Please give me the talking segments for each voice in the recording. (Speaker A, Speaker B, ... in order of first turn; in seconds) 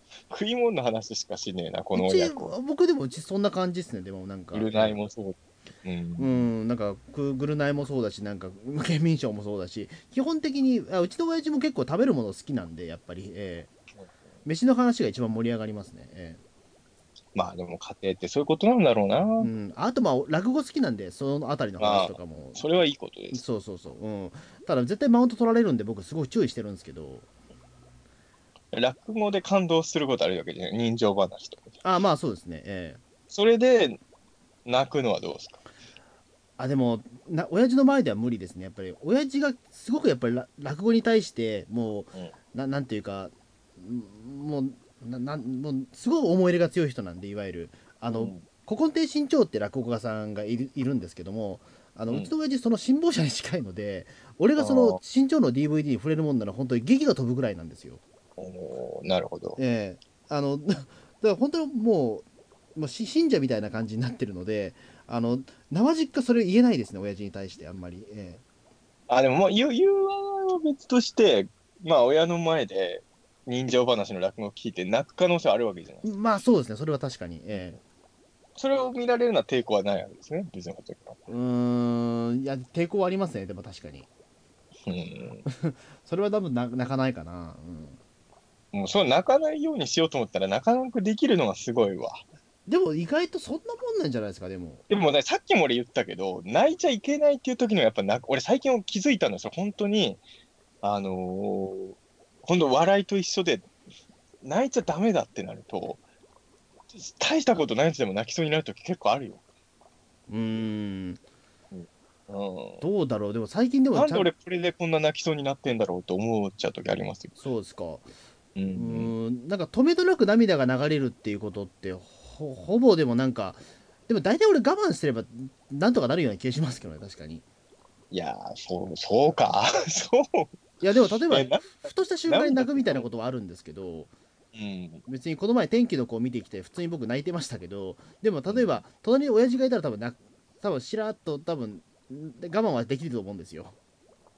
Speaker A: 0.3-2.5, 4.5-6.5, 17.3-19.5, 21.8-23.4, 28.7-31.8, 33.3-34.0, 34.6-35.6, 48.1-48.5, 54.6-55.0, 58.4-59.6, 69.1-76.0, 78.5-81.2, 84.8-85.4, 88.7-92.2, 94.9-100.2, 100.8-103.7, 104.4-106.0, 106.9-109.4, 111.7-112.8, 113.9-117.3, 118.5-119.1, 128.1-130.6, 131.3-133.1, 134.5-135.0, 138.5-138.8
Speaker B: 1.9-5.0, 6.2-13.7, 14.4-16.4, 19.4-22.7, 23.3-27.2, 31.8-33.0, 36.6-58.0, 59.6-68.4, 76.0-77.8, 81.3-84.1, 85.5-88.0, 92.7-94.8, 110.3-111.2, 112.8-114.3, 117.4-118.1, 118.7-127.4, 130.8-134.1, 135.1-143.7